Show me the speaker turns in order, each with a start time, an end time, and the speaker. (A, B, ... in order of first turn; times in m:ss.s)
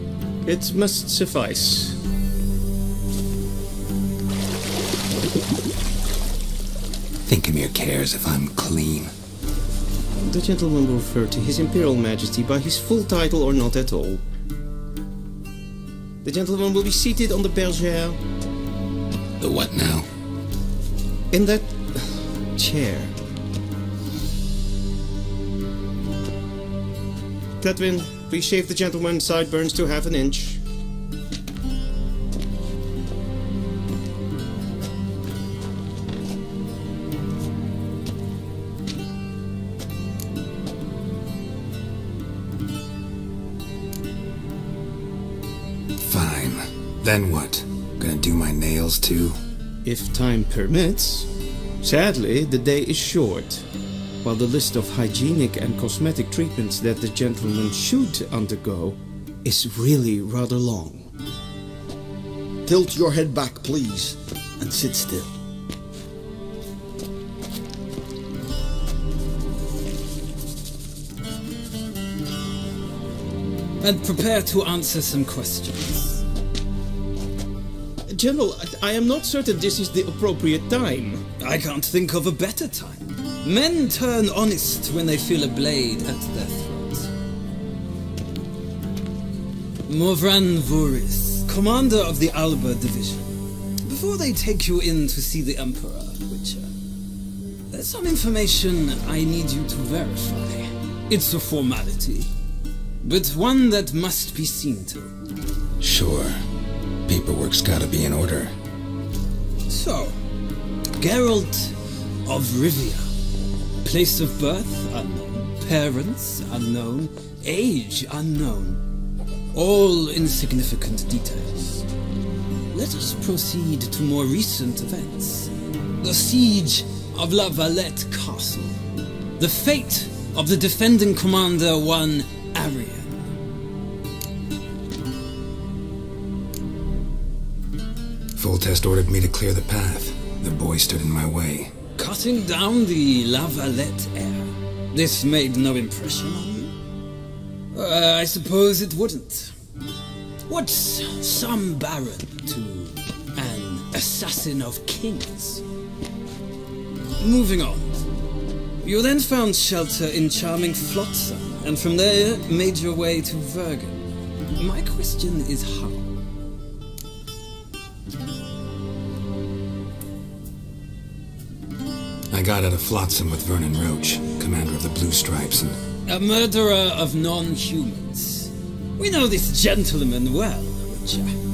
0:00.4-0:02.0 A
0:07.3-0:09.1 B
0:10.2-0:14.2 A
0:16.2-0:18.2 A
0:19.4-0:20.1 B
0:21.3-0:23.2 A
0:27.6-0:30.6 A
0:46.0-0:49.4 B
0:49.8-0:53.7 A
0:54.2-1:01.1 A
1:02.7-1:05.3 C
1:13.8-1:16.2 D
1:18.1-1:21.2 A
1:21.4-1:27.1 D
1:29.9-1:36.7 D
1:37.7-1:42.3 D
1:43.0-1:45.1 D
1:45.8-1:46.4 B
1:47.1-1:48.6 B
1:49.7-1:50.2 D
1:51.0-1:51.8 D
1:52.3-1:53.1 D
1:53.8-1:58.8 D
1:59.5-2:01.9 D
2:02.7-2:08.8 D
2:09.4-2:13.3 D
2:18.4-2:21.7 B
2:22.0-2:26.7 D
2:27.7-2:29.6 D
2:30.5-2:35.6 D
2:37.2-2:38.0 D
2:38.8-2:44.0 D
2:44.6-2:46.2 D
2:52.3-2:55.8 B
2:56.1-3:01.3 D